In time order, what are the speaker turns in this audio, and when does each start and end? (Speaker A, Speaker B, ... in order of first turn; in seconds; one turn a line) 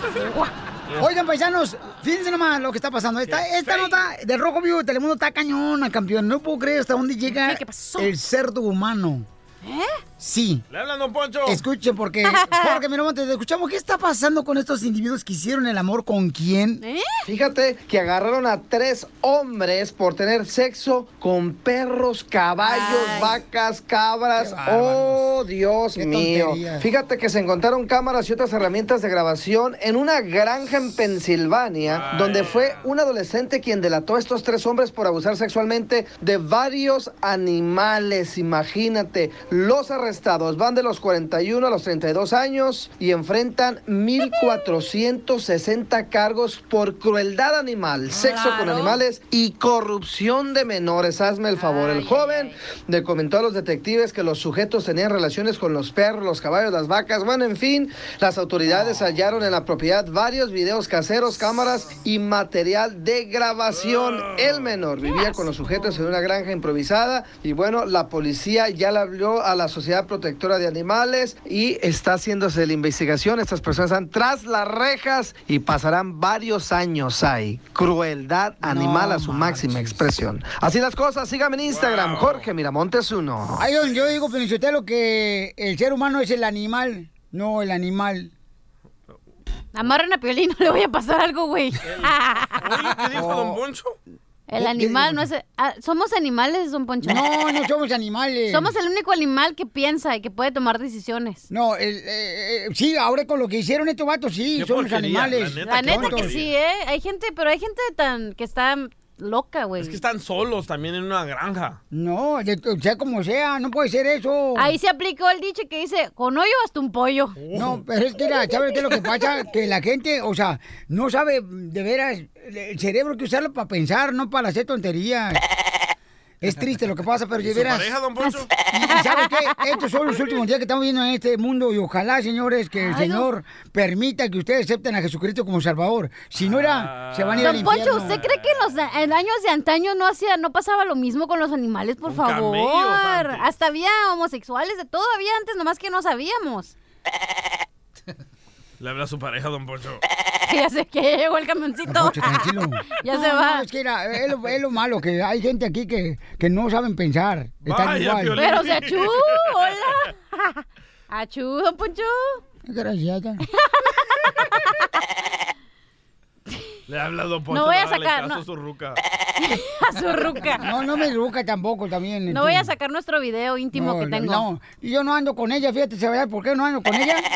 Speaker A: 0.2-0.5
Speaker B: 1.0-9.3
Speaker C: 3.3-4.0
Speaker A: 7.3-8.1
Speaker A: 9.6-10.0
Speaker B: 10.2-10.7
Speaker C: 10.7-11.6
Speaker B: 11.5-16.8
Speaker A: 12.3-12.8
Speaker A: 16.8-17.2
Speaker D: 17.3-83.6
Speaker A: 22.6-23.4
Speaker B: 24.4-25.3
Speaker B: 25.9-26.9
Speaker C: 31.8-32.9
Speaker A: 48.1-49.0
Speaker A: 51.5-52.6
Speaker C: 63.7-64.7
Speaker A: 65.1-65.8
Speaker B: 78.6-80.1
Speaker C: 81.7-82.5
Speaker B: 83.6-88.3
Speaker A: 89.7-92.7
Speaker C: 91.8-94.0
Speaker B: 93.1-93.6
Speaker A: 94.5-97.3
Speaker B: 94.5-95.3
Speaker B: 97.0-98.7
Speaker A: 98.5-101.5
Speaker B: 101.5-106.4
Speaker C: 104.5-106.5
Speaker A: 105.6-110.0
Speaker C: 109.8-111.8
Speaker B: 111.9-114.8
Speaker A: 114.6-117.4
Speaker C: 117.4-117.8
Speaker B: 117.5-125.4
Speaker B: 126.4-128.0
Speaker C: 127.4-128.5
Speaker B: 128.6-138.2
Speaker A: 128.8-129.8
Speaker A: 132.8-133.3
Speaker C: 136.4-138.5
Speaker A: 137.4-146.7
Speaker C: 142.1-143.5
Speaker C: 148.8-150.0
Speaker A: 150.4-153.7
Speaker B: 151.8-158.4
Speaker C: 157.7-159.2
Speaker A: 158.3-162.4
Speaker B: 162.7-163.4
Speaker A: 163.5-164.7
Speaker C: 166.9-169.0
Speaker A: 167.5-168.4
Speaker A: 169.4-170.7
Speaker B: 170.5-172.7
Speaker A: 172.3-174.5
Speaker B: 173.7-177.3